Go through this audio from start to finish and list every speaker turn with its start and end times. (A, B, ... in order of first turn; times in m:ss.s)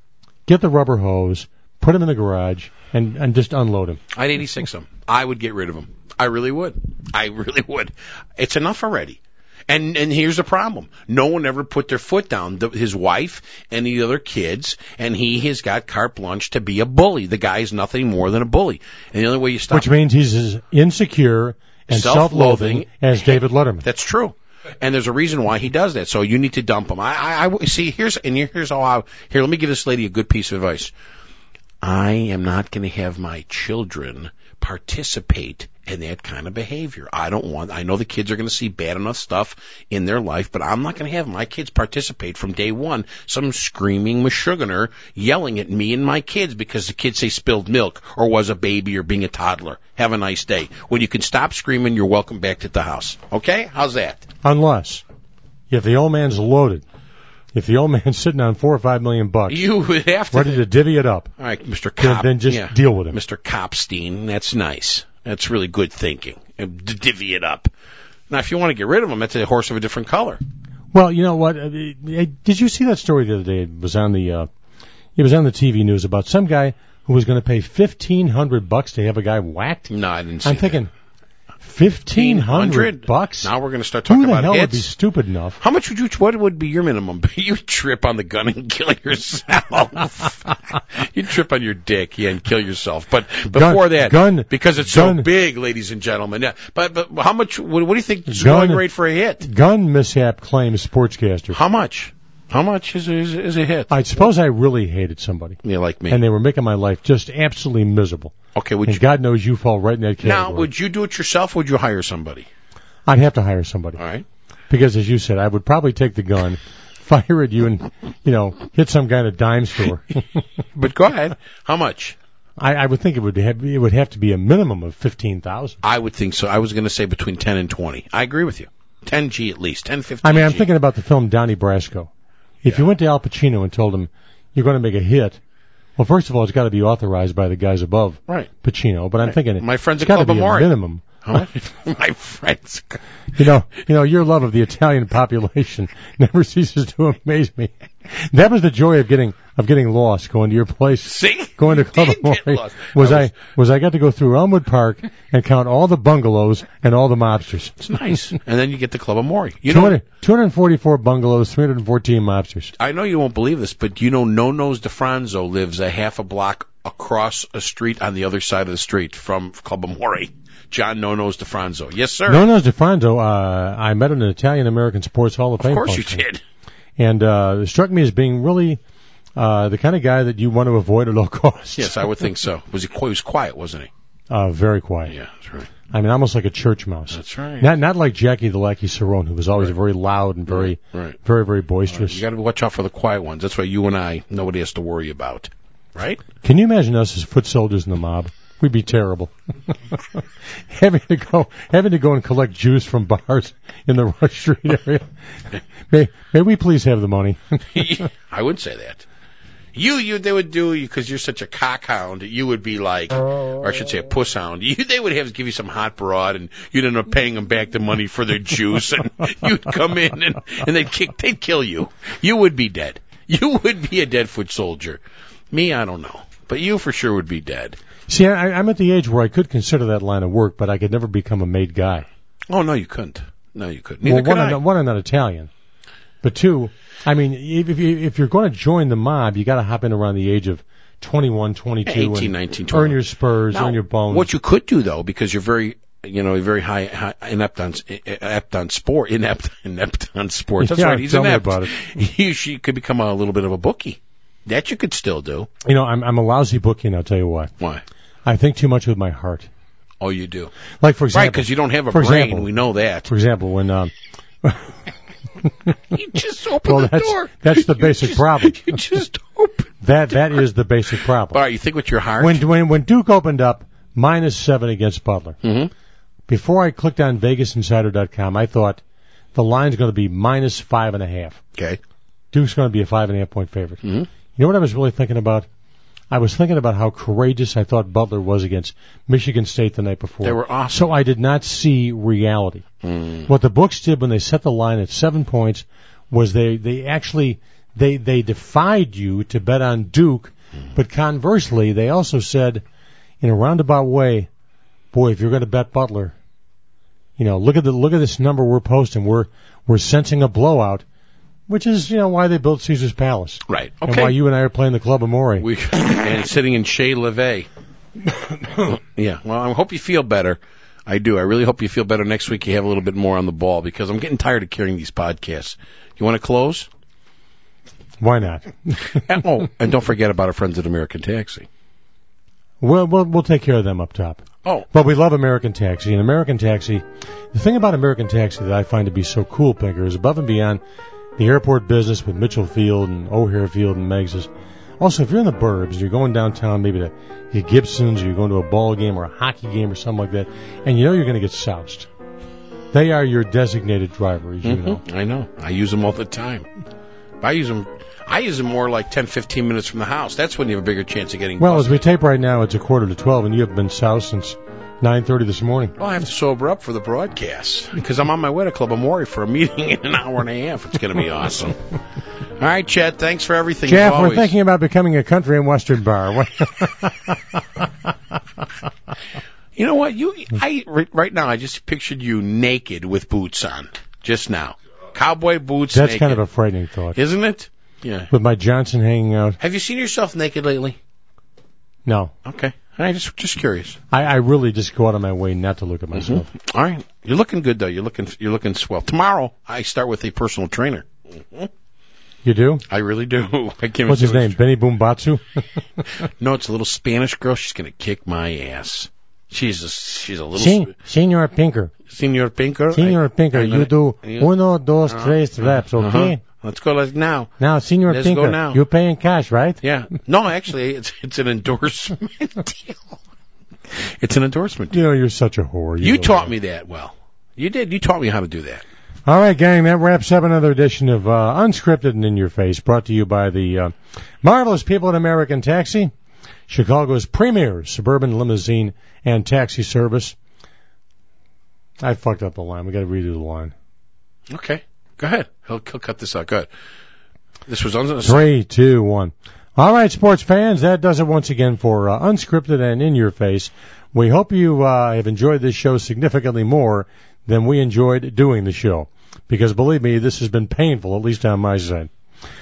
0:00.5-0:04.0 A
0:04.1-0:19.9 B
0:19.7-0:23.9 A
0:21.9-0:30.9 B
0:31.8-0:54.3 B
0:54.4-0:55.0 A
0:55.7-0:56.8 A
0:57.5-0:59.6 A
0:59.5-1:00.6 B
1:00.3-1:01.3 A
1:01.4-1:07.7 B
1:02.0-1:03.2 A
1:08.3-1:10.4 B
1:10.9-1:14.5 A
1:15.2-1:19.9 A
1:19.9-1:20.8 B
1:20.4-1:20.9 A
1:21.6-1:23.5 A
1:22.1-1:24.9 B
1:24.1-1:25.6 A
1:25.6-1:39.5 B
1:33.5-1:35.3 A
1:38.3-1:38.8 A
1:39.4-1:41.6 A
1:41.5-1:44.0 B
1:43.9-1:45.6 A
1:45.6-1:46.2 B
1:46.1-1:48.4 A
1:48.6-1:49.0 B
1:48.9-1:50.7 A
1:50.2-1:52.5 B
1:53.1-1:54.0 A
1:54.0-1:54.2 B
1:54.7-2:00.4 A
2:00.8-2:02.2 B
2:02.6-2:05.8 A
2:05.8-2:10.7 B
2:10.2-2:12.1 A
2:12.6-2:15.4 A
2:16.0-2:21.2 A
2:19.2-2:20.7 B
2:21.2-2:23.0 B
2:23.4-2:37.8 A
2:31.1-2:33.3 B
2:37.8-2:40.0 B
2:39.7-2:42.7 A
2:42.8-2:52.5 B
2:52.3-2:56.2 A
2:55.6-2:56.4 B
2:57.0-2:58.8 A
2:59.4-3:02.0 A
3:01.8-3:03.9 B
3:04.3-3:05.2 A
3:05.1-3:05.7 B
3:05.9-3:12.2 A
3:07.1-3:07.7 B
3:10.5-3:11.2 B
3:11.9-3:16.2 B
3:16.4-3:25.1 A
3:25.9-3:28.0 A
3:27.7-3:29.0 B
3:29.7-3:47.8 B
3:48.1-3:52.1 A
3:52.5-3:54.6 B
3:54.0-3:55.5 A
3:56.2-4:04.3 A
4:01.9-4:03.0 B
4:03.5-4:15.5 B
4:10.6-4:11.8 A
4:15.6-4:17.5 A
4:18.3-4:19.5 A
4:20.0-4:20.5 B
4:20.8-4:22.5 A
4:21.1-4:23.1 B
4:23.1-4:23.9 A
4:24.4-4:24.8 A
4:25.4-4:25.7 A
4:25.9-4:30.4 B
4:26.6-4:28.8 A
4:29.8-4:31.4 A
4:31.3-4:32.4 B
4:32.2-4:35.4 A
4:35.4-4:35.7 B
4:36.3-4:38.8 A
4:39.3-4:41.4 A
4:42.3-4:43.8 A
4:43.8-4:44.1 B
4:44.4-4:45.5 A
4:46.1-4:52.6 A
4:50.2-4:50.9 B
4:52.8-4:53.3 B
4:53.3-5:02.6 A
5:03.2-5:04.3 A
5:04.9-5:06.2 A
5:07.2-5:10.8 A
5:11.5-5:15.5 A
5:13.5-5:14.2 B
5:15.4-5:17.5 B
5:18.6-5:26.7 B
5:28.0-5:29.2 A
5:29.0-5:31.5 B
5:32.6-5:40.6 A
5:41.2-5:51.9 A
5:52.7-5:54.8 A
5:54.4-5:56.5 B
5:57.2-6:01.8 B
6:01.4-6:05.8 A
6:05.8-6:11.6 B
6:12.4-6:14.4 B
6:13.7-6:17.7 A
6:19.6-6:26.2 B
6:25.7-6:27.0 A
6:26.9-6:28.1 B
6:28.1-6:29.4 A
6:29.4-6:30.8 B
6:31.9-6:32.1 A
6:32.2-6:33.8 B
6:33.9-6:36.3 A
6:35.9-6:41.5 B
6:42.2-6:42.6 A
6:42.7-6:44.4 B
6:43.9-6:45.5 A
6:46.2-6:50.7 B
6:50.4-6:51.7 A
6:51.9-6:54.3 B
6:52.7-6:56.2 A
6:54.9-6:57.3 B
6:57.4-6:59.6 A
6:57.9-6:58.6 B
6:59.6-7:03.0 B
7:03.8-7:04.8 B
7:04.7-7:06.3 A
7:05.8-7:08.6 B
7:09.1-7:15.9 A
7:16.5-7:20.2 A
7:21.8-7:23.5 A
7:24.3-7:26.5 B
7:27.5-7:28.3 B
7:28.0-7:41.9 A